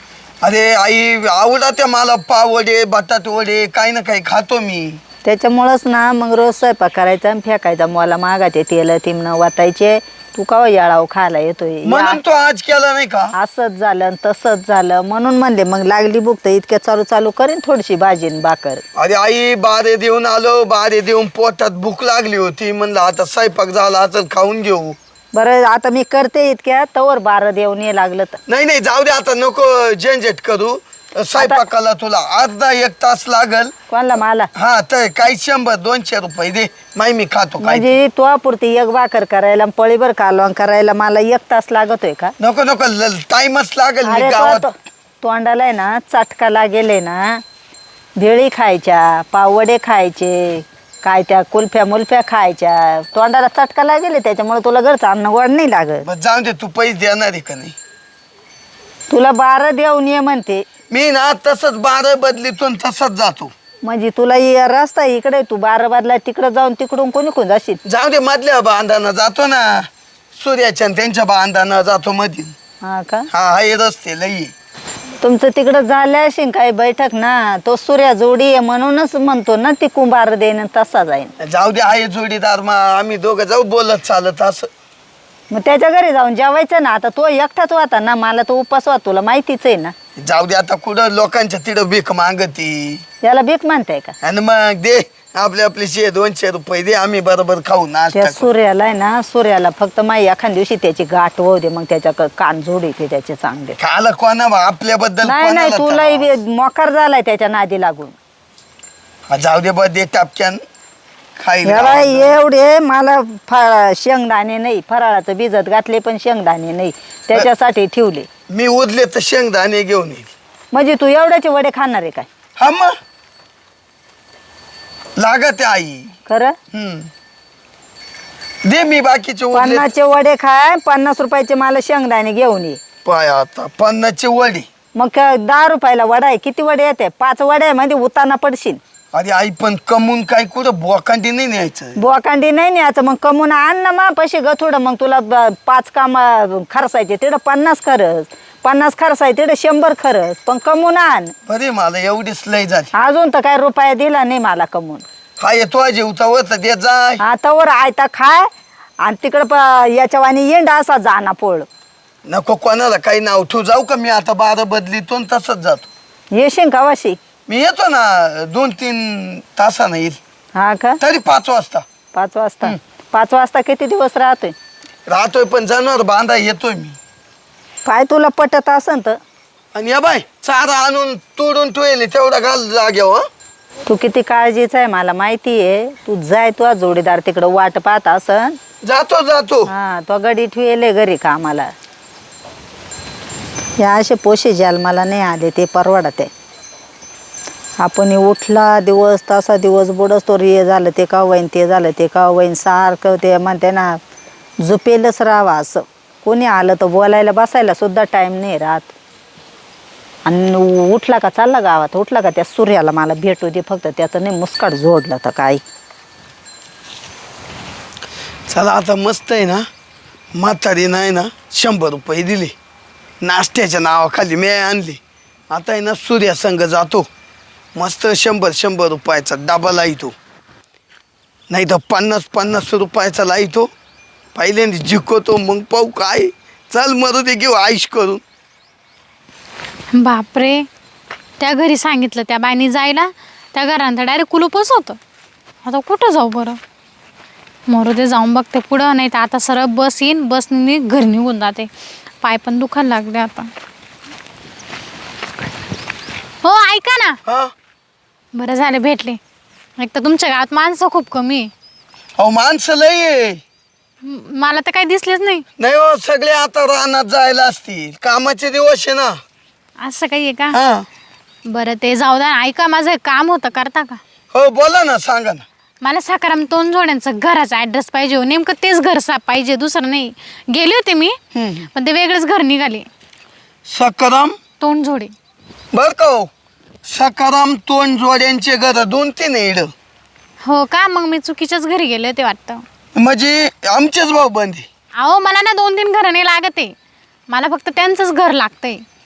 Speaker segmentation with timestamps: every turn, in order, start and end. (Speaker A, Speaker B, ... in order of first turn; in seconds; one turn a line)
Speaker A: 0.4-5.0
Speaker B: 5.2-12.2
Speaker A: 11.8-13.3
Speaker B: 13.3-18.8
Speaker A: 18.9-25.0
Speaker B: 25.3-28.4
Speaker A: 28.5-33.7
Speaker B: 31.3-31.6
Speaker B: 33.9-34.5
Speaker A: 34.5-37.9
Speaker B: 37.6-42.3
Speaker A: 42.4-44.6
Speaker B: 44.0-47.4
Speaker B: 48.2-56.0
Speaker A: 56.0-57.8
Speaker B: 59.1-60.6
Speaker A: 60.9-63.5
Speaker B: 63.8-67.8
Speaker A: 67.8-72.5
Speaker B: 72.8-73.3
Speaker A: 73.3-74.5
Speaker B: 75.2-81.3
Speaker A: 81.4-84.7
Speaker B: 85.5-89.9
Speaker A: 90.2-93.0
Speaker B: 93.2-94.1
Speaker A: 94.2-98.5
Speaker B: 98.1-103.8
Speaker A: 103.8-106.3
Speaker B: 105.2-108.1
Speaker A: 109.3-110.6
Speaker A: 111.4-112.4
Speaker B: 111.6-118.3
Speaker A: 118.5-120.3
Speaker B: 120.7-122.3
Speaker A: 122.6-122.9
Speaker A: 125.2-126.1
Speaker B: 126.3-126.5
Speaker A: 126.7-127.1
Speaker A: 128.6-129.9
Speaker B: 129.5-132.8
Speaker A: 133.0-134.7
Speaker B: 134.9-138.8
Speaker A: 139.1-142.0
Speaker B: 142.0-151.3
Speaker A: 151.5-152.9
Speaker B: 152.9-155.0
Speaker A: 155.4-157.2
Speaker B: 157.2-158.5
Speaker B: 159.0-161.7
Speaker A: 162.2-165.9
Speaker B: 166.3-167.2
Speaker A: 167.5-170.2
Speaker B: 170.6-171.0
Speaker A: 171.0-171.8
Speaker B: 172.1-174.5
Speaker A: 175.1-177.0
Speaker B: 177.8-179.2
Speaker A: 179.7-183.2
Speaker B: 183.9-188.6
Speaker A: 188.8-189.7
Speaker B: 189.7-191.7
Speaker B: 193.8-196.3
Speaker B: 197.8-204.0
Speaker B: 204.6-208.9
Speaker B: 210.2-215.6
Speaker A: 218.5-219.7
Speaker A: 220.3-222.5
Speaker A: 223.2-227.1
Speaker A: 227.8-230.1
Speaker A: 231.5-233.7
Speaker A: 234.3-238.2
Speaker C: 239.9-240.7
Speaker C: 241.4-245.0
Speaker C: 245.6-246.6
Speaker C: 247.7-251.7
Speaker C: 252.2-253.5
Speaker C: 256.4-257.2
Speaker A: 257.2-257.5
Speaker C: 258.3-259.2
Speaker C: 259.8-261.5
Speaker A: 262.2-263.4
Speaker C: 264.0-265.4
Speaker A: 265.6-269.2
Speaker C: 269.8-270.6
Speaker A: 270.5-270.9
Speaker C: 271.4-274.0
Speaker A: 274.3-275.4
Speaker C: 275.8-281.1
Speaker A: 281.3-281.7
Speaker C: 281.7-282.9
Speaker A: 283.7-284.4
Speaker C: 284.6-285.1
Speaker A: 285.7-286.3
Speaker A: 286.8-289.7
Speaker C: 290.4-292.6
Speaker A: 292.9-294.7
Speaker C: 294.9-296.7
Speaker C: 297.3-298.8